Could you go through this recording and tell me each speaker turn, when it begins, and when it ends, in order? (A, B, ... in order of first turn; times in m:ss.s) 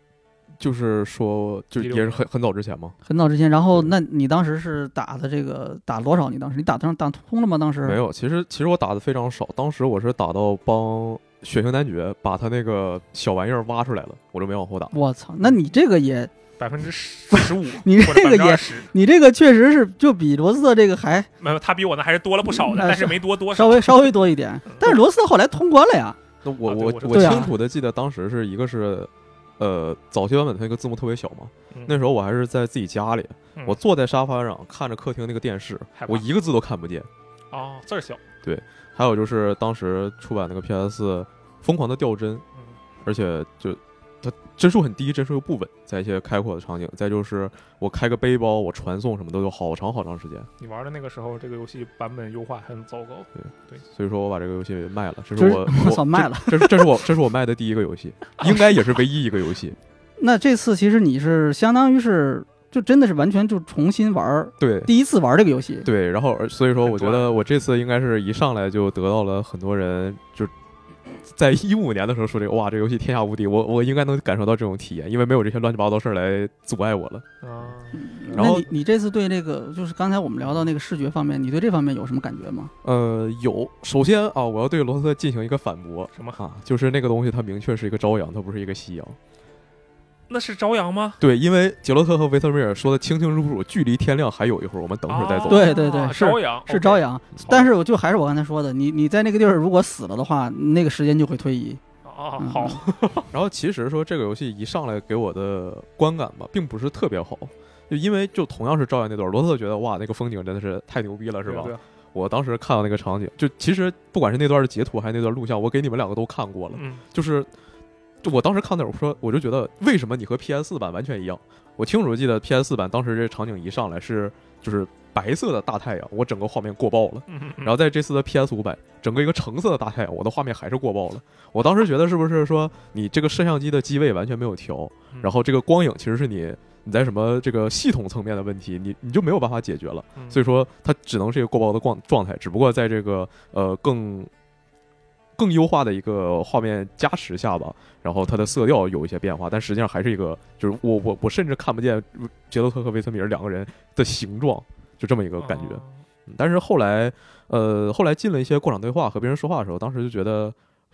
0:00.6-0:03.0 A
0:01.8-0:02.2 B
0:03.1-0:08.0 C
0:07.8-0:14.9 A
0:14.9-0:16.3 C
0:16.6-0:18.9 B
0:17.3-0:21.3 C
0:21.4-0:24.1 B
0:22.5-0:26.2 C
0:24.7-0:25.0 B
0:26.4-0:37.1 A
0:26.6-0:27.5 B
0:27.1-0:27.5 C
0:31.7-0:32.0 B
0:36.0-0:36.3 B
0:37.5-0:38.2 B
0:38.4-0:42.4 A
0:43.0-0:50.5 A
0:50.6-0:53.8 B
0:53.4-0:59.8 A
0:55.4-0:56.9 C
1:00.2-1:05.9 C
1:04.6-1:04.9 A
1:05.8-1:10.5 A
1:06.8-1:07.4 B
1:11.2-1:17.2 A
1:17.4-1:18.0 B
1:17.9-1:22.7 C
1:18.3-1:18.7 A
1:22.8-1:29.2 A
1:30.3-1:31.2 B
1:31.2-1:35.7 A
1:35.1-1:37.7 B
1:35.5-1:41.8 C
1:42.0-1:43.3 B
1:42.4-1:42.8 C
1:43.3-1:57.5 A
1:51.4-1:51.8 B
1:56.7-1:57.0 B
1:58.2-2:24.3 A
2:07.3-2:07.7 B
2:20.2-2:20.4 B
2:25.4-2:40.6 A
2:35.4-2:36.0 B